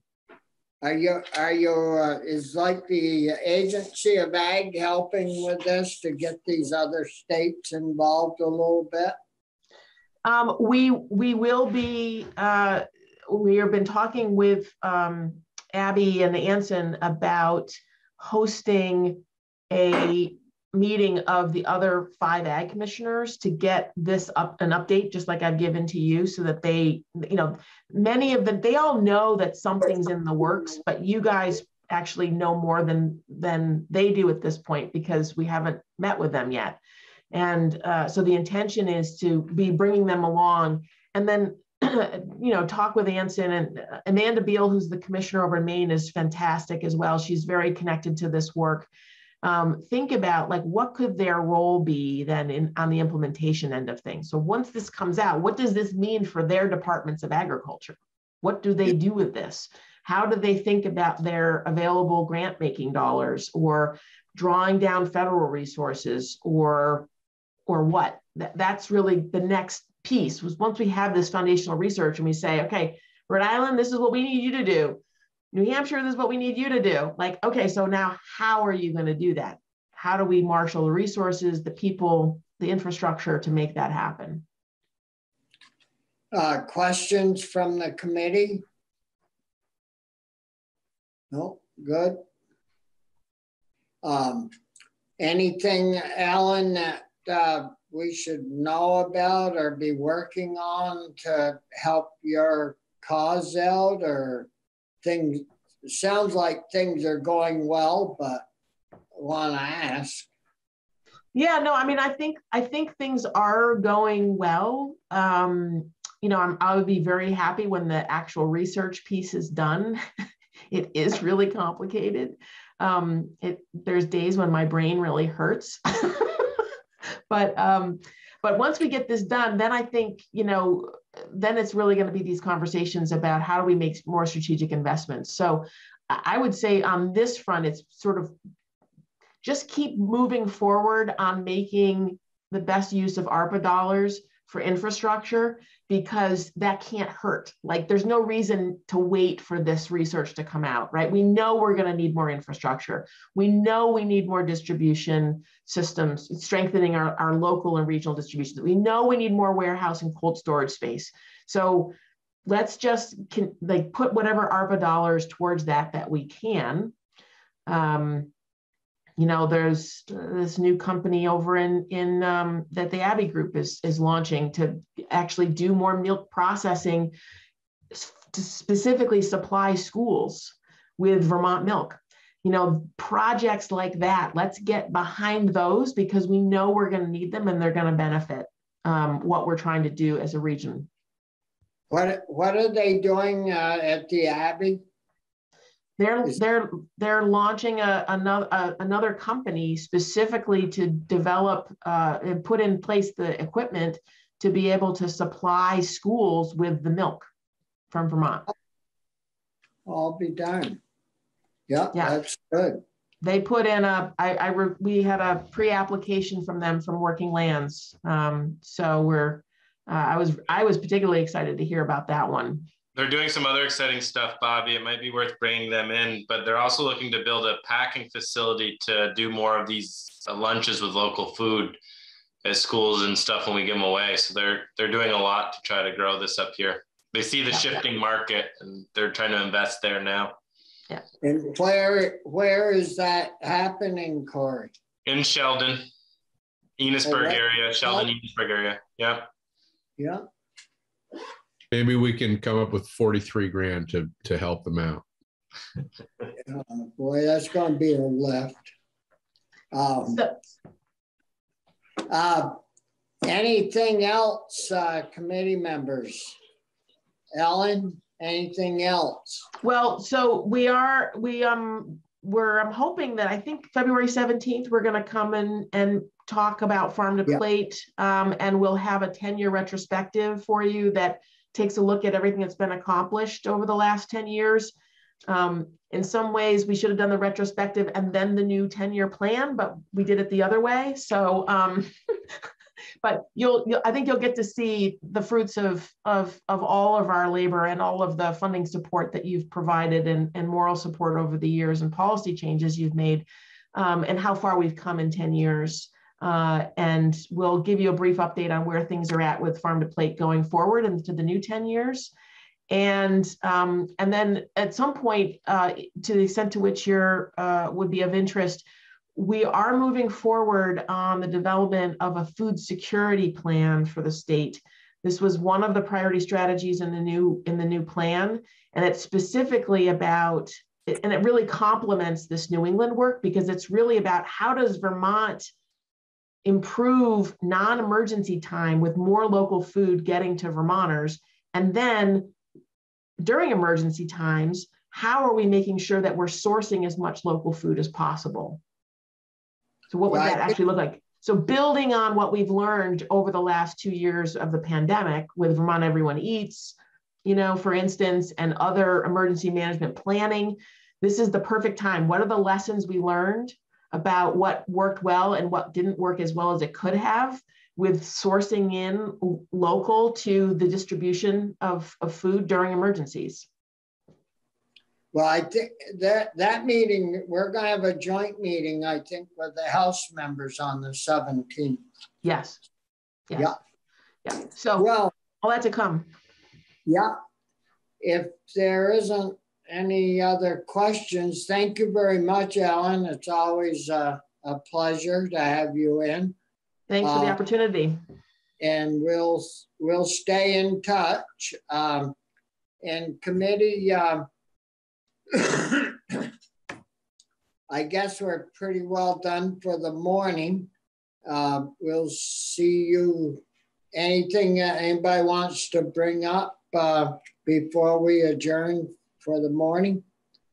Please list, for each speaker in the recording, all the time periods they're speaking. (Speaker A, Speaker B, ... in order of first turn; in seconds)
Speaker A: 0.8-9.2, 86.3-88.6, 91.3-92.2, 94.0-94.5, 95.2-104.5, 105.0-108.4, 109.1-110.3, 191.9-194.8, 209.9-210.8, 211.7-212.8, 241.2-244.7, 247.0-248.1, 250.0-250.3, 256.4-258.7, 259.7-260.3, 262.1-262.6, 263.2-266.4, 267.4-269.5, 350.1-350.6, 375.1-381.8, 384.8-385.1, 386.9-387.1, 388.0-396.4, 397.0-397.4, 398.6-402.2, 402.8-404.3, 405.3-406.3, 407.7-410.7, 411.2-420.0
Speaker B: 10.2-36.8, 37.3-48.9, 49.4-67.1, 67.7-75.0, 75.5-84.4, 111.3-120.0, 120.7-126.6, 127.3-138.3, 139.4-161.9, 162.5-166.9, 167.7-168.3, 169.2-177.1, 177.9-190.9, 196.0-207.3, 207.9-208.5, 211.9-212.2, 213.2-222.7, 269.6-284.7, 285.3-291.9, 293.0-312.1, 312.7-335.5, 336.4-342.3, 343.2-348.6, 349.9-373.5, 382.2-382.6, 383.3-383.6, 384.2-384.9, 385.4-386.1, 396.9-398.0
Speaker C: 222.9-231.8, 232.4-240.3, 245.1-245.9, 246.8-249.3
Speaker D: 251.7-255.0